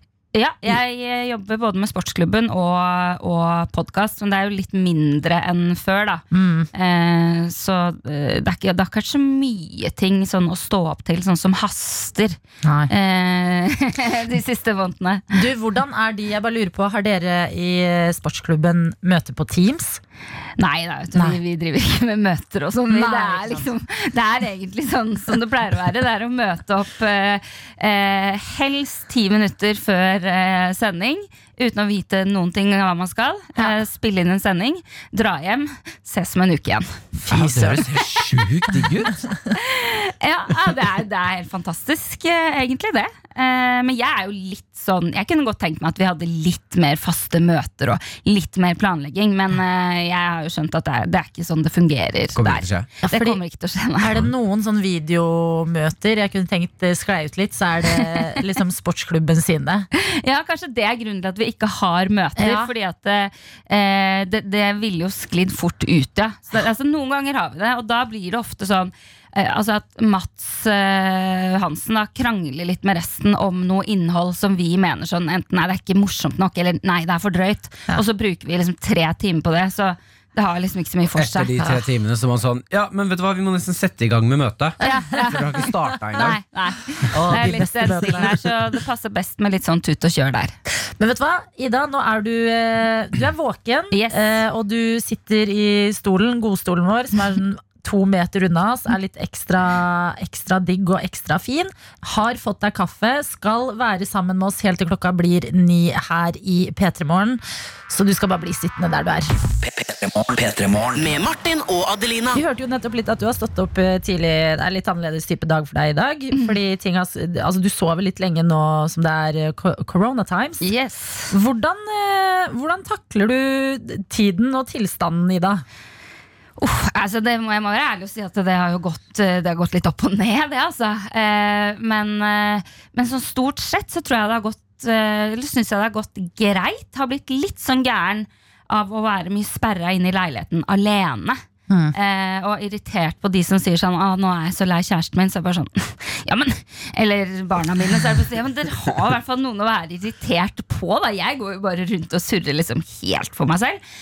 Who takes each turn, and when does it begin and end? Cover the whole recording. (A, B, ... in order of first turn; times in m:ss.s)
0:00.3-0:12.4 A
0:06.3-0:06.7 B
0:12.6-0:12.9 B
0:12.9-0:15.4 A
0:15.3-0:20.0 B
0:20.6-0:37.0 A
0:22.9-0:23.7 B
0:37.2-0:37.8 B
0:37.3-0:39.3 C
0:39.5-0:54.2 A
0:52.3-0:52.9 C
0:53.0-0:53.4 B
0:54.0-0:59.9 B
0:57.9-0:58.3 A
0:59.9-1:21.5 A
1:02.4-1:02.7 B
1:21.1-1:26.4 C
1:24.8-1:30.5 A
1:27.1-1:27.7 C
1:27.1-1:28.3 B
1:31.0-1:49.3 B
1:33.9-1:34.4 A
1:49.5-1:52.4 D
1:52.3-2:00.7 B
1:56.3-1:56.6 A
2:00.6-2:01.3 A
2:01.3-2:05.6 B
2:06.6-2:21.4 A
2:21.9-2:33.8 A